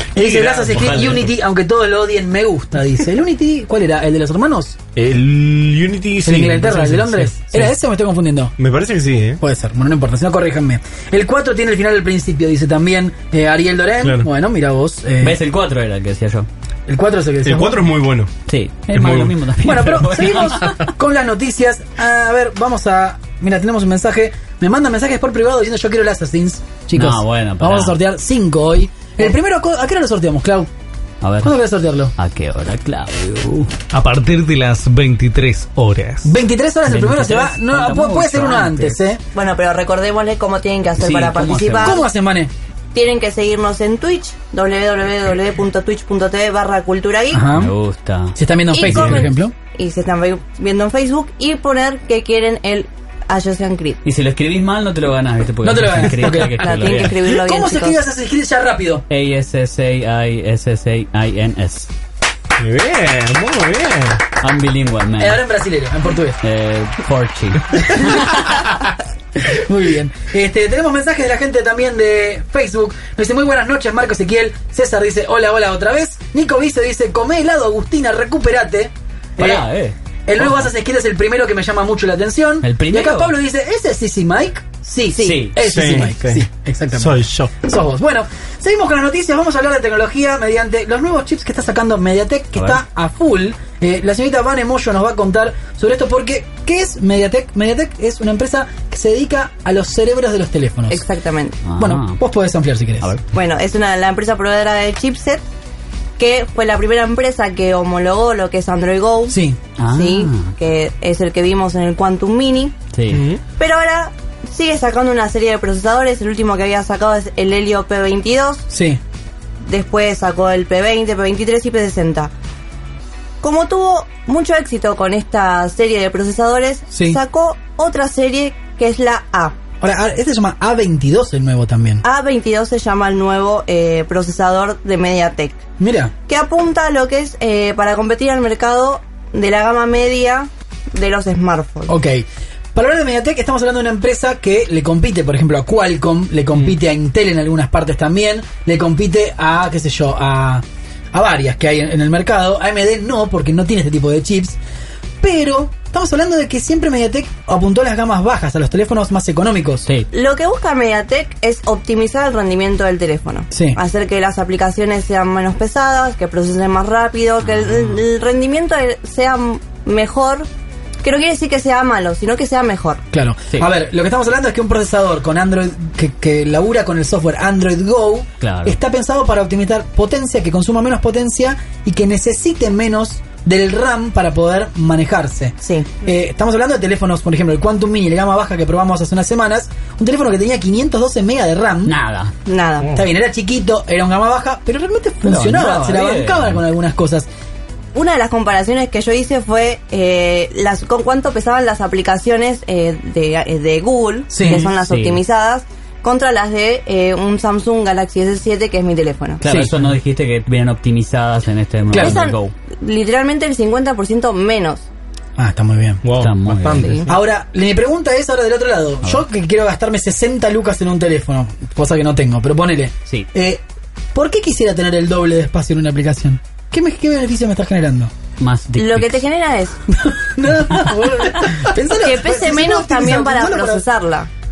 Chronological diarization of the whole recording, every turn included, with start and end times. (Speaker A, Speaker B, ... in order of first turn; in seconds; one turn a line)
Speaker A: 0.1-4.8
Speaker B: 0.2-1.2
Speaker C: 0.7-1.3
Speaker B: 5.0-7.7
Speaker A: 6.2-8.5
Speaker B: 8.6-9.4
Speaker A: 9.4-15.4
Speaker B: 14.0-14.3
Speaker C: 15.2-16.5
Speaker A: 16.9-17.9
Speaker B: 17.4-18.3
Speaker C: 18.5-20.9
Speaker B: 18.9-19.3
Speaker A: 19.6-30.7
Speaker C: 26.9-28.0
Speaker C: 31.2-31.6
Speaker A: 31.4-32.1
Speaker C: 32.2-33.7
Speaker D: 33.9-36.3
Speaker A: 36.2-39.2
Speaker C: 36.9-39.0
Speaker E: 39.3-42.0
Speaker C: 41.0-42.0
Speaker A: 41.8-42.5
Speaker E: 42.9-47.5
Speaker A: 47.3-47.7
Speaker C: 47.6-48.4
Speaker A: 48.4-49.5
Speaker E: 48.7-54.0
Speaker B: 48.9-49.1
Speaker C: 54.0-57.2
Speaker A: 55.6-59.0
Speaker E: 56.5-58.0
Speaker C: 59.1-61.9
Speaker B: 62.6-64.2
Speaker C: 64.4-65.4
Speaker A: 65.2-66.4
Speaker C: 66.4-68.5
Speaker A: 69.4-79.7
Speaker C: 79.4-80.7
Speaker A: 80.3-101.0
Speaker C: 82.6-83.3
Speaker C: 85.2-85.6
Speaker B: 85.6-86.4
Speaker B: 87.0-87.5
Speaker C: 92.5-92.8
Speaker E: 100.9-101.6
Speaker C: 101.7-102.2
Speaker A: 101.8-103.1
Speaker E: 103.3-105.4
Speaker E: 106.2-112.8
Speaker A: 109.3-109.6
Speaker C: 109.8-110.5
Speaker C: 112.9-113.2
Speaker B: 113.1-113.4
Speaker E: 113.6-118.7
Speaker A: 118.7-119.0
Speaker E: 119.7-122.3
Speaker E: 123.4-129.6
Speaker A: 126.9-127.2
Speaker A: 129.8-132.0
Speaker E: 132.0-135.6
Speaker A: 135.8-136.1
Speaker E: 136.3-141.9
Speaker A: 141.9-154.6
Speaker A: 155.2-159.9
Speaker E: 160.1-170.5
Speaker A: 163.5-163.8
Speaker C: 167.5-168.0
Speaker E: 171.0-173.0
Speaker A: 173.1-192.0
Speaker C: 178.4-178.8
Speaker E: 185.6-185.9
Speaker C: 191.9-192.3
Speaker E: 192.5-192.9
Speaker A: 192.9-197.3
Speaker C: 195.2-196.6
Speaker E: 197.9-209.4
Speaker A: 204.3-204.7
Speaker C: 204.4-205.2
Speaker C: 209.4-212.5
Speaker A: 209.4-209.8
Speaker A: 211.9-212.2
Speaker E: 212.0-214.9
Speaker A: 215.4-216.0
Speaker B: 216.0-217.2
Speaker C: 216.2-216.9
Speaker A: 217.1-223.6
Speaker A: 224.1-228.1
Speaker C: 228.4-229.2
Speaker E: 228.8-229.8
Speaker A: 229.9-233.8
Speaker E: 231.9-234.3